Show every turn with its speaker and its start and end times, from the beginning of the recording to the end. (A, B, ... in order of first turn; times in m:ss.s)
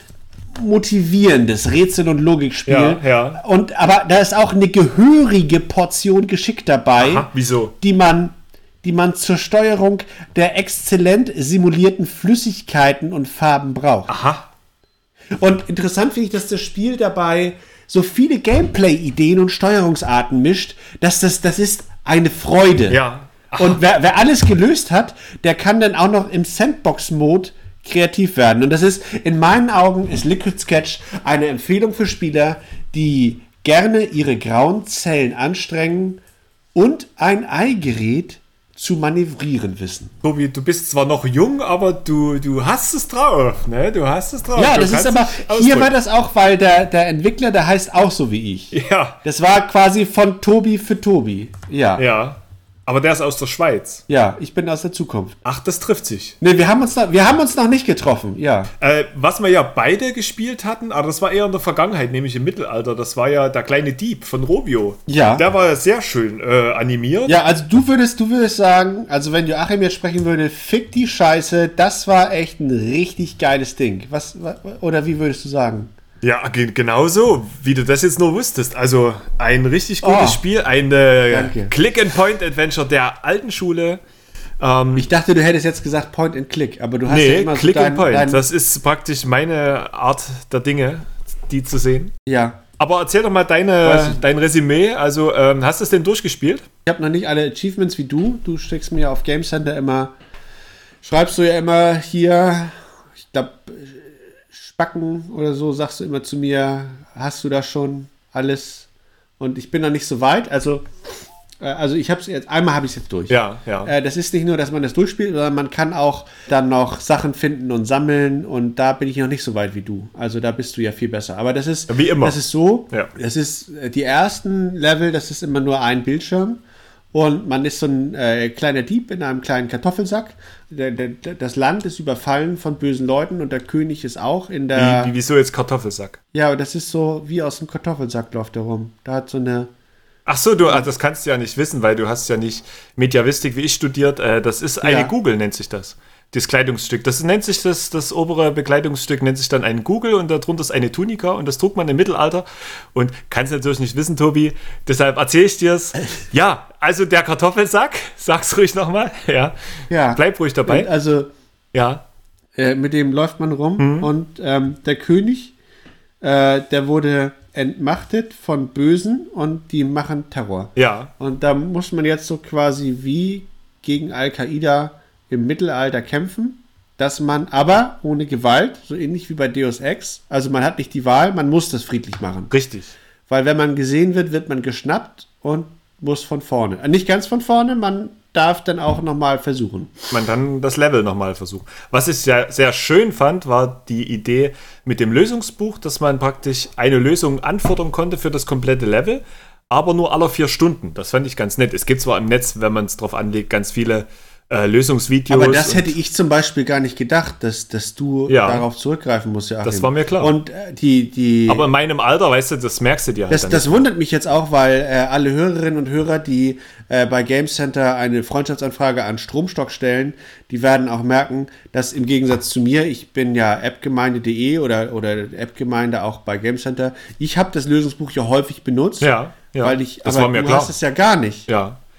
0:00.6-0:07.3 A
0:02.7-0:03.4 B
0:07.0-0:07.8 B
0:07.8-0:14.1 A
0:14.1-0:14.5 B
0:15.4-0:23.0 A
0:22.9-0:23.8 B
0:23.6-0:36.2 A
0:36.8-0:40.1 A
0:40.2-0:45.9 B
0:44.6-0:52.0 A
0:48.7-0:49.2 B
0:52.0-0:54.0 B
0:54.1-0:55.4 A
0:55.4-0:56.4 B
0:56.4-0:58.7 A
0:58.8-1:07.4 B
1:05.1-1:05.5 A
1:07.3-1:15.9 A
1:16.2-1:24.0 B
1:20.0-1:20.4 A
1:21.3-1:21.7 A
1:24.6-1:25.1 B
1:25.0-1:28.4 A
1:27.1-1:32.1 B
1:32.3-1:32.6 A
1:32.8-1:36.7 B
1:33.8-1:34.2 A
1:36.9-1:40.1 A
1:41.0-1:42.7 A
1:43.2-1:48.9 A
1:49.4-1:50.9 A
1:51.6-2:06.6 A
1:53.3-1:53.9 B
2:01.9-2:02.4 B
2:07.1-2:15.1 A
2:14.8-2:16.2 B
2:16.3-2:19.7 A
2:20.3-2:39.6 B
2:24.8-2:25.1 A
2:39.9-2:41.3 A
2:40.2-2:40.9 B
2:41.7-2:42.0 B
2:42.6-2:45.5 A
2:43.8-2:44.1 B
2:46.2-3:02.5 A
2:50.8-2:51.1 B
3:02.5-3:02.9 B
3:03.3-3:10.0 A
3:10.1-3:25.9 B
3:25.3-3:31.7 A
3:28.3-3:28.7 B
3:29.6-3:30.3 B
3:31.5-3:33.8 B
3:33.3-3:51.5 A
3:49.0-3:50.7 B
3:51.5-3:51.8 B